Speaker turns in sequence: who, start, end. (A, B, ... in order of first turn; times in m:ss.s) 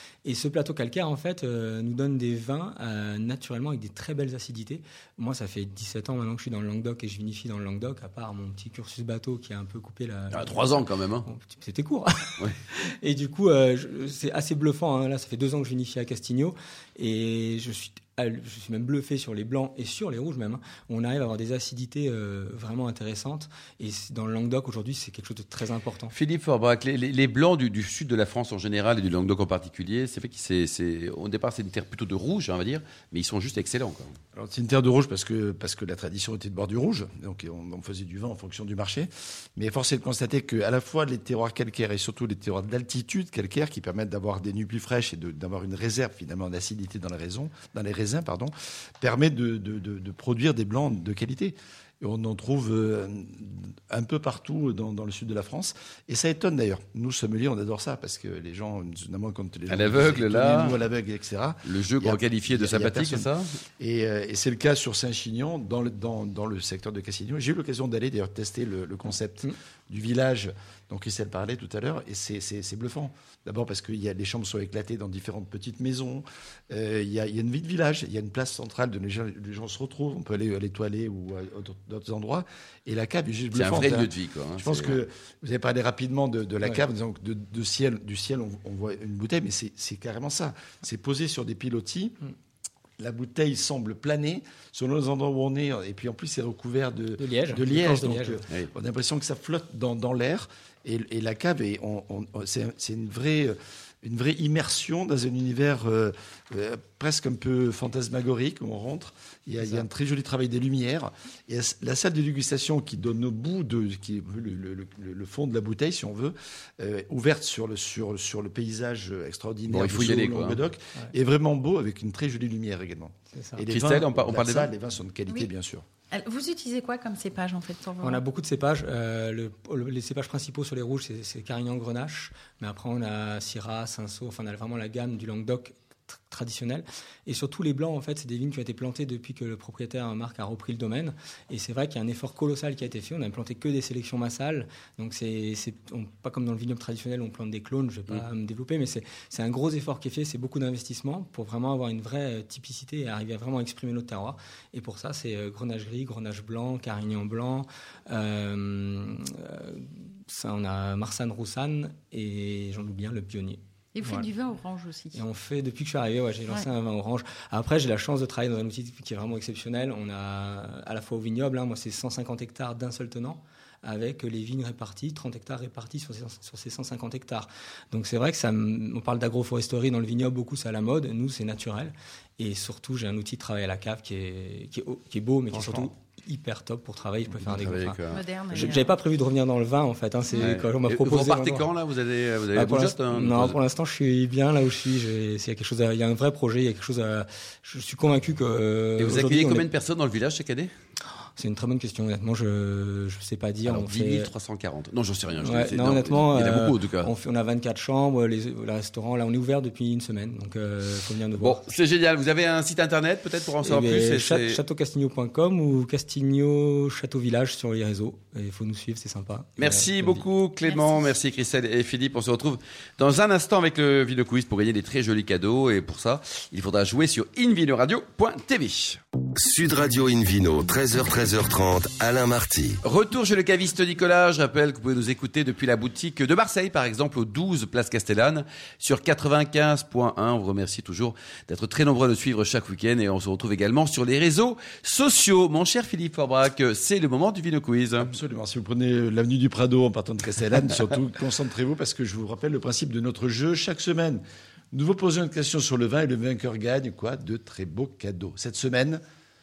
0:00.2-0:26.1 A
0:10.3-0:11.3 B
0:26.1-0:34.1 B
0:34.4-1:32.2 C
0:59.7-1:00.8 B
1:01.6-1:03.5 B
1:23.5-1:25.0 B
1:33.0-2:05.8 C
1:37.2-1:38.4 A
1:59.7-2:00.6 B
2:03.7-2:04.7 B
2:06.1-2:08.2 D
2:08.0-2:44.2 A
2:43.9-2:45.2 D
2:45.2-3:11.7 A
3:05.5-3:05.9 B
3:07.3-3:08.2 B
3:08.1-3:09.0 D
3:10.4-3:13.6 B
3:12.5-3:19.6 A
3:19.0-3:20.7 B
3:21.4-3:24.3 A
3:23.6-3:27.1 B
3:25.4-3:31.6 A
3:31.3-3:34.6 B
3:33.7-3:40.2 A
3:39.6-3:49.0 B
3:40.7-3:41.1 D
3:49.4-3:52.8 E
3:49.8-3:50.7 A
3:52.8-4:08.1 B
4:08.0-4:19.0 C